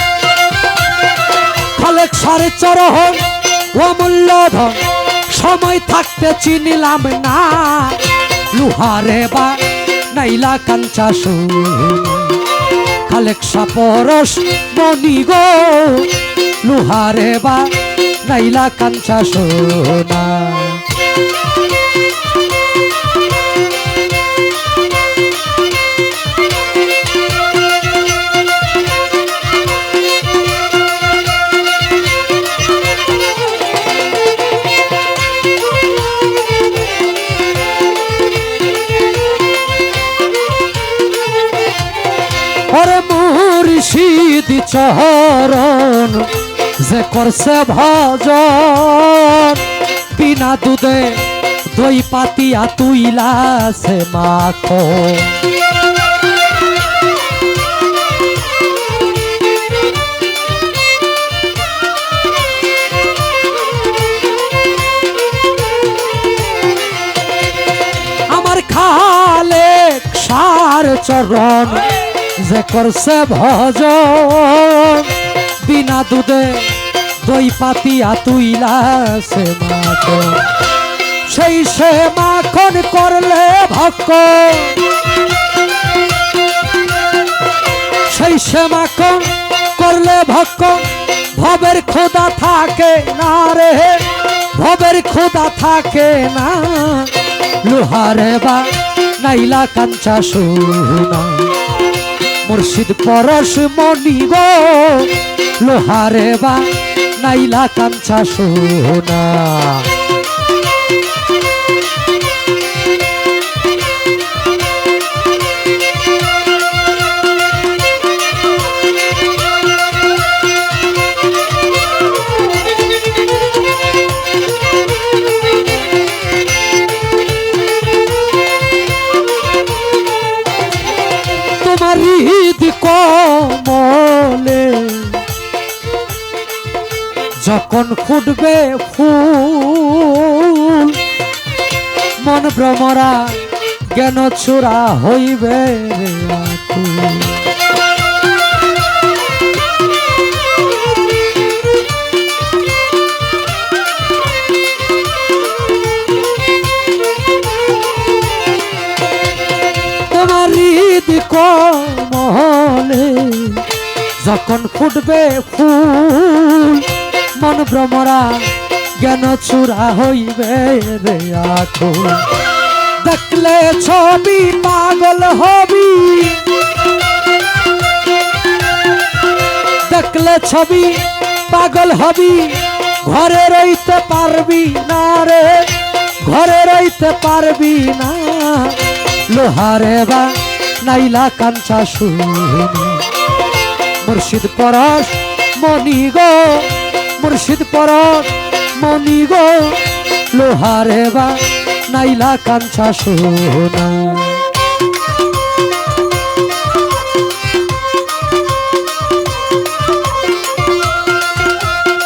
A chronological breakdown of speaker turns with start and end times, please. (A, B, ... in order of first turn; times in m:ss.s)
0:01.7-0:12.5 A
0:13.0-0:20.8 A
0:42.7-0:55.4 A
1:08.3-1:20.5 A
1:21.2-1:24.9 A
1:28.0-1:41.6 A
1:42.4-1:49.9 A
2:11.6-2:15.2 A
2:17.4-2:21.0 A
2:22.2-2:27.5 A
2:40.1-2:52.4 A
2:53.0-2:56.5 A
2:59.8-3:13.1 A
3:14.0-3:24.4 A